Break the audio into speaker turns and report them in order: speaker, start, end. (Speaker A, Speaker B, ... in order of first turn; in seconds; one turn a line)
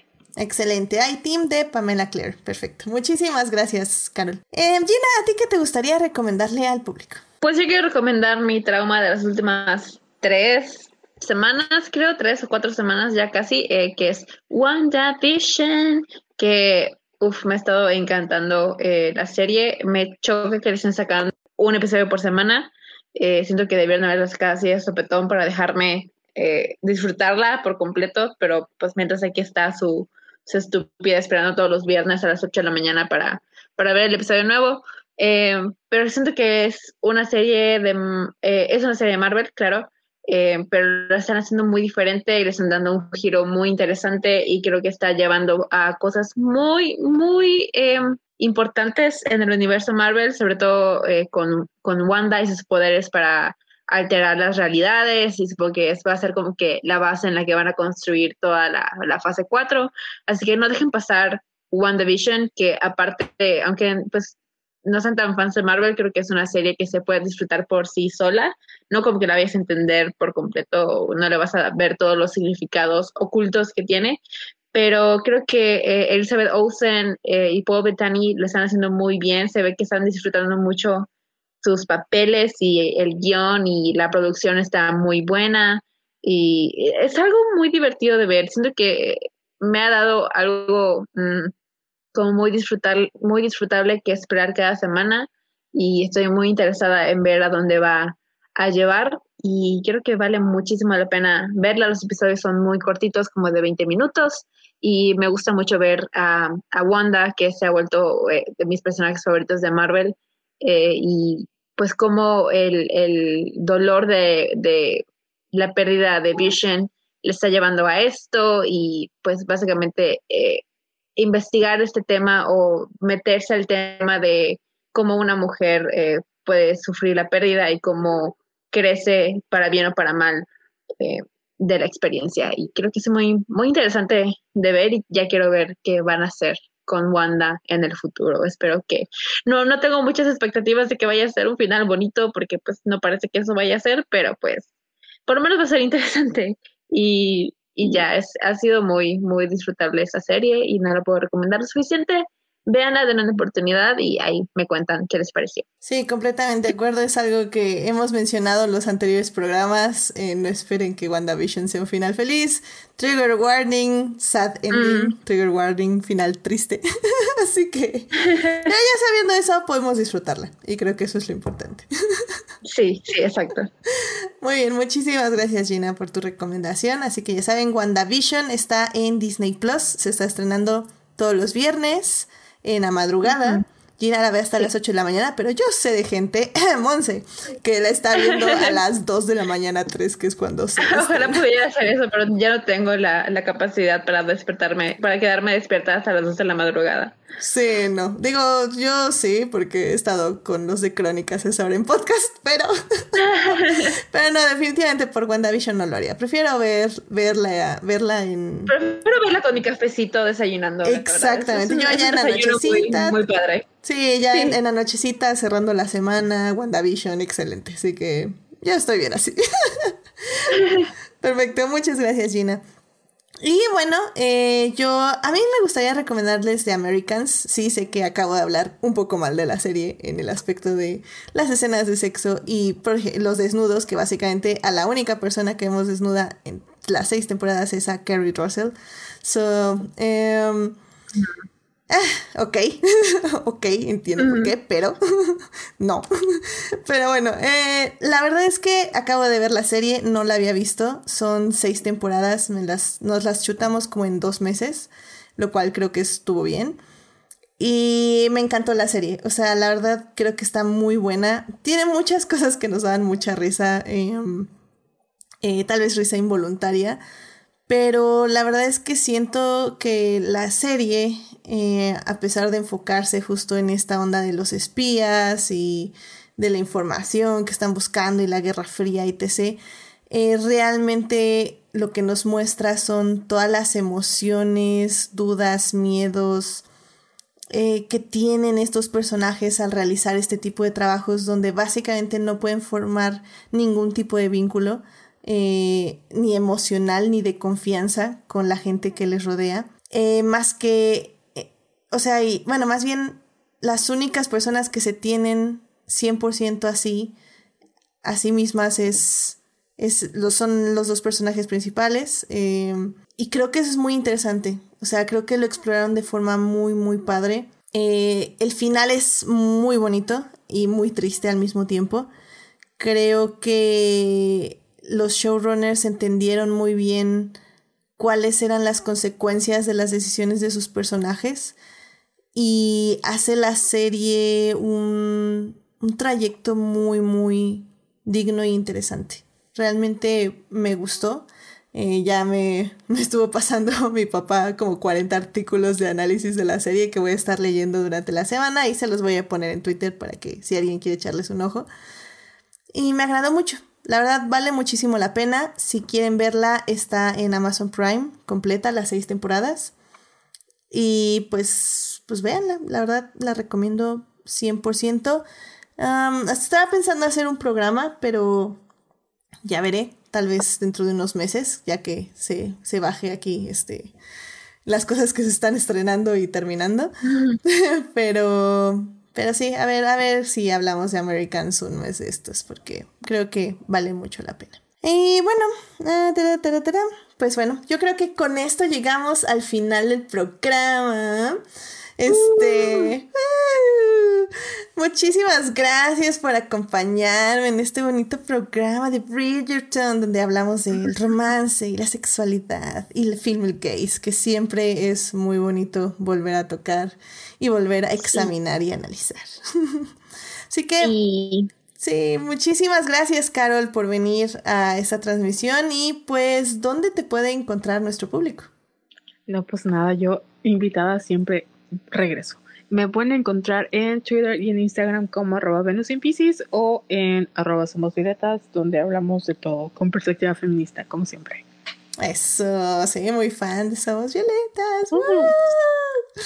Speaker A: 0.4-7.2
Speaker B: 7.4-74.2
Speaker B: 74.7-81.1
Speaker B: 81.6-91.5
Speaker B: 92.1-120.6
Speaker B: 121.2-130.5
Speaker B: 131.0-144.7
Speaker B: 145.3-155.6
Speaker A: 155.8-172.4
Speaker B: 164.7-165.1
Speaker B: 168.2-168.7
Speaker B: 172.6-173.7
Speaker A: 174.0-191.4
Speaker B: 183.3-183.6
Speaker B: 188.2-188.8
Speaker B: 190.8-197.2
Speaker A: 197.4-208.7
Speaker B: 203.2-203.9
Speaker B: 208.7-213.7
Speaker A: 210.8-213.2
Speaker A: 213.8-220.6
Speaker B: 214.3-214.6
Speaker B: 220.5-220.9
Speaker A: 221.2-222.6
Speaker A: 223.4-240.8
Speaker A: 241.9-256.8
Speaker B: 244.2-244.5
Speaker A: 257.6-264.5
Speaker A: 265.4-267.0
Speaker A: 267.7-286.6
Speaker A: 287.5-307.1
Speaker A: 308.0-322.1
Speaker A: 322.8-327.4
Speaker A: 328.0-331.6
Speaker A: 332.3-351.7
Speaker A: 352.7-359.7
Speaker A: 360.7-365.2
Speaker A: 365.8-368.6
Speaker A: 369.4-373.9
Speaker A: 374.6-376.9
Speaker B: 377.0-377.4
Speaker A: 377.4-391.4
Speaker A: 392.0-409.9
Speaker B: 392.1-392.9
Speaker B: 408.0-408.3
Speaker A: 410.5-410.9
Speaker B: 410.8-411.5
Speaker A: 411.8-418.5
Speaker C: 419.3-431.4
Speaker A: 432.0-436.0
Speaker C: 434.9-435.3